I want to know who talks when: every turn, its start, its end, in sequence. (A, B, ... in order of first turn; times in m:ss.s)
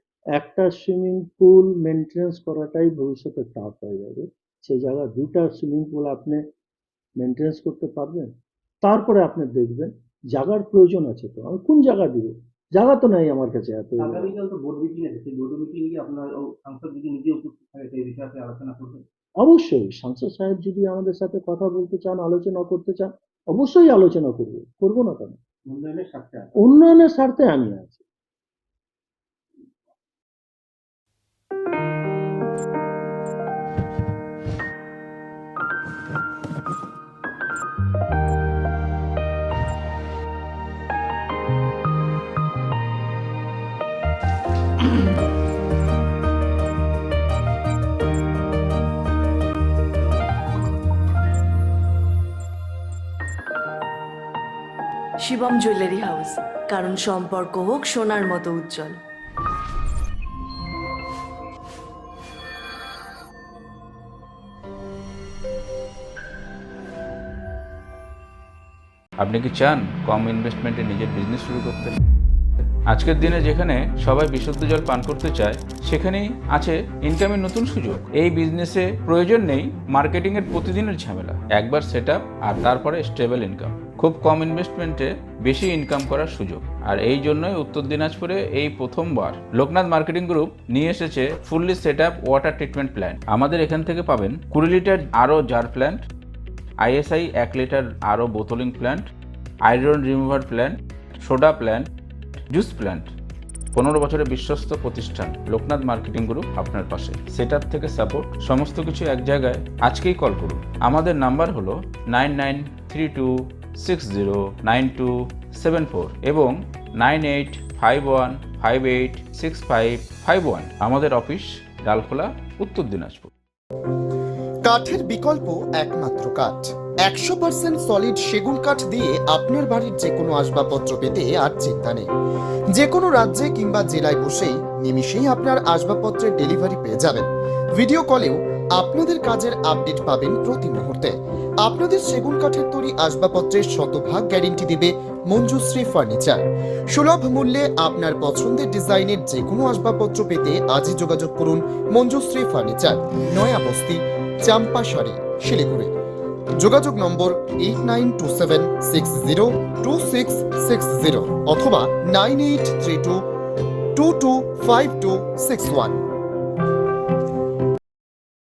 0:00.4-0:06.4 A
0:07.2-0:14.4 A
0:14.0-0:19.0 B
0:19.4-0:25.4 A
0:25.6-0:26.5 B
0:26.6-0:28.0 A
0:55.2-0:59.0 C
1:09.2-1:12.0 D
1:12.9-1:36.1 D
1:36.8-1:39.0 D
1:39.6-1:41.9 D
1:42.5-1:43.1 D
1:43.7-2:03.3 D
2:04.6-2:12.1 E
2:12.7-2:26.4 E
2:26.9-2:35.9 E
2:36.6-2:43.2 E
2:43.9-2:46.0 E